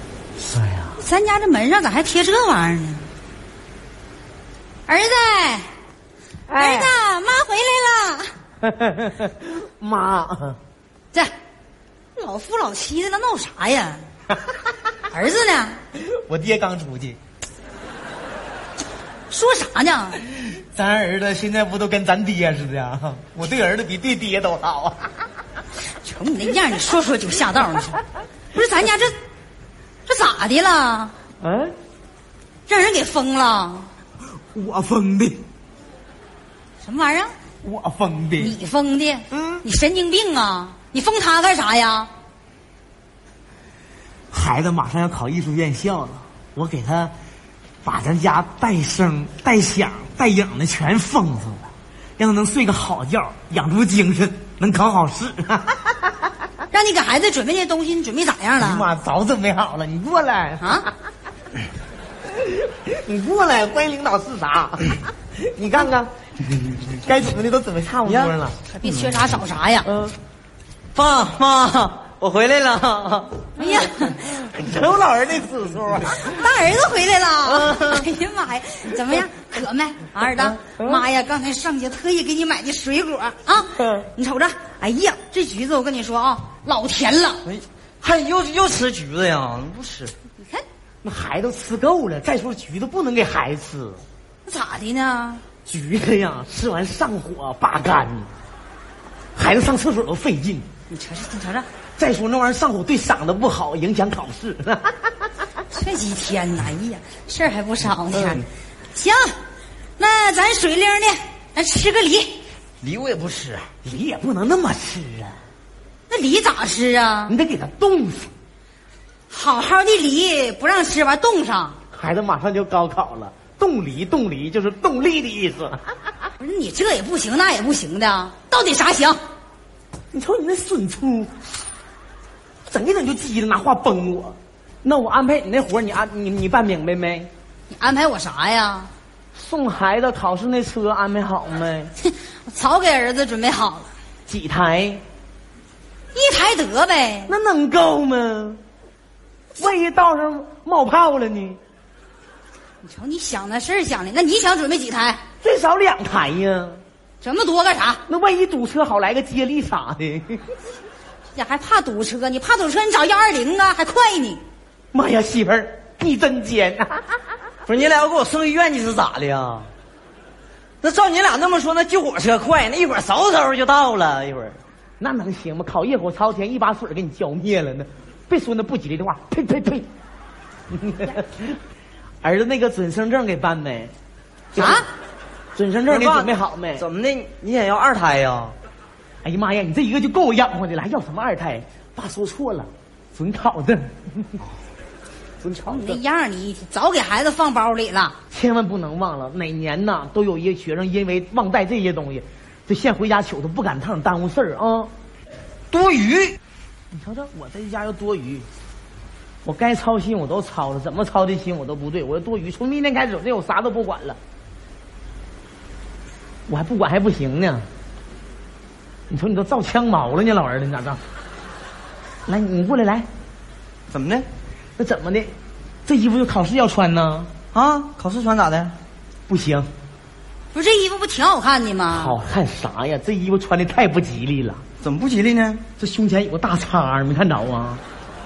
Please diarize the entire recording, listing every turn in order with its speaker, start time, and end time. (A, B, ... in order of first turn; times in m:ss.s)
0:00.4-0:01.0 A
0:01.0-0:03.0 B
0:04.9-0:05.7 B
0:06.5-0:06.9 A
0:06.6-0:08.3 B
0:08.6-0:10.6 A
0:12.2-0:14.0 B
0:15.1-0:15.8 B
0:16.1-0:17.2 A
0:19.3-0:20.2 B
0:20.5-0:25.1 A
0:26.0-0:28.0 B
0:28.5-0:29.1 B
0:30.1-0:31.1 B
0:31.4-0:31.7 A
0:32.7-0:33.9 B
0:34.5-0:35.4 A
0:36.8-0:37.3 B
0:37.6-0:38.6 A
0:38.4-0:42.1 B
0:39.3-0:39.6 A
0:44.3-0:47.1 A
0:47.8-0:56.2 A
0:56.7-0:58.9 B
0:58.6-1:00.8 A
1:00.6-1:00.9 B
1:02.7-1:06.1 A
1:07.0-1:08.6 A
1:08.0-1:09.1 C
1:08.8-1:09.9 B
1:09.8-1:10.1 A
1:10.9-1:13.5 C
1:13.6-1:14.2 B
1:13.6-1:16.5 A
1:16.2-1:27.4 B
1:17.6-1:18.0 C
1:20.6-1:21.0 A
1:27.4-1:30.1 C
1:30.4-1:30.6 B
1:31.0-1:34.0 A
1:34.4-1:35.4 B
1:35.7-1:38.3 A
1:39.4-1:40.6 A
1:40.9-1:41.7 B
1:42.0-1:45.1 A
1:45.7-1:49.4 B
1:48.1-1:48.4 A
1:50.0-1:52.4 B
1:52.8-1:53.7 C
1:53.8-1:55.4 A
1:56.1-1:57.3 B
1:57.3-1:58.3 A
1:59.3-2:01.8 B
2:01.9-2:05.8 A
2:06.4-2:09.2 B
2:10.1-2:11.3 A
2:12.7-2:17.3 A
2:17.7-2:18.9 B
2:19.3-2:21.9 A
2:22.0-2:23.9 B
2:24.3-2:25.0 A
2:26.1-2:27.3 B
2:27.3-2:28.6 A
2:29.6-2:31.6 A
2:32.8-2:35.2 B
2:35.4-2:36.8 A
2:37.2-2:38.0 B
2:38.1-2:40.4 A
2:41.3-2:44.4 B
2:44.9-2:47.0 A
2:47.7-2:49.7 C
2:50.8-2:54.6 C
2:55.0-2:59.9 A
3:00.7-3:01.6 A
3:02.2-3:03.9 A
3:04.5-3:04.8 A
3:04.6-3:04.9 B
3:05.5-3:06.8 A
3:05.9-3:08.5 C
3:09.2-3:14.4 A
3:15.4-3:16.0 A
3:15.7-3:18.2 B
3:18.3-3:24.9 A
3:25.7-3:26.4 C
3:26.9-3:28.5 A
3:29.4-3:34.2 A
3:36.5-3:37.6 A
3:39.1-3:41.0 A
3:42.3-3:43.0 A
3:43.9-3:44.3 C
3:44.8-3:45.3 A
3:45.8-3:47.3 A
3:47.5-3:48.7 C
3:49.3-3:49.7 A
3:50.5-3:52.1 B
3:51.9-3:54.6 A
3:54.8-3:55.6 C
3:55.8-3:57.8 A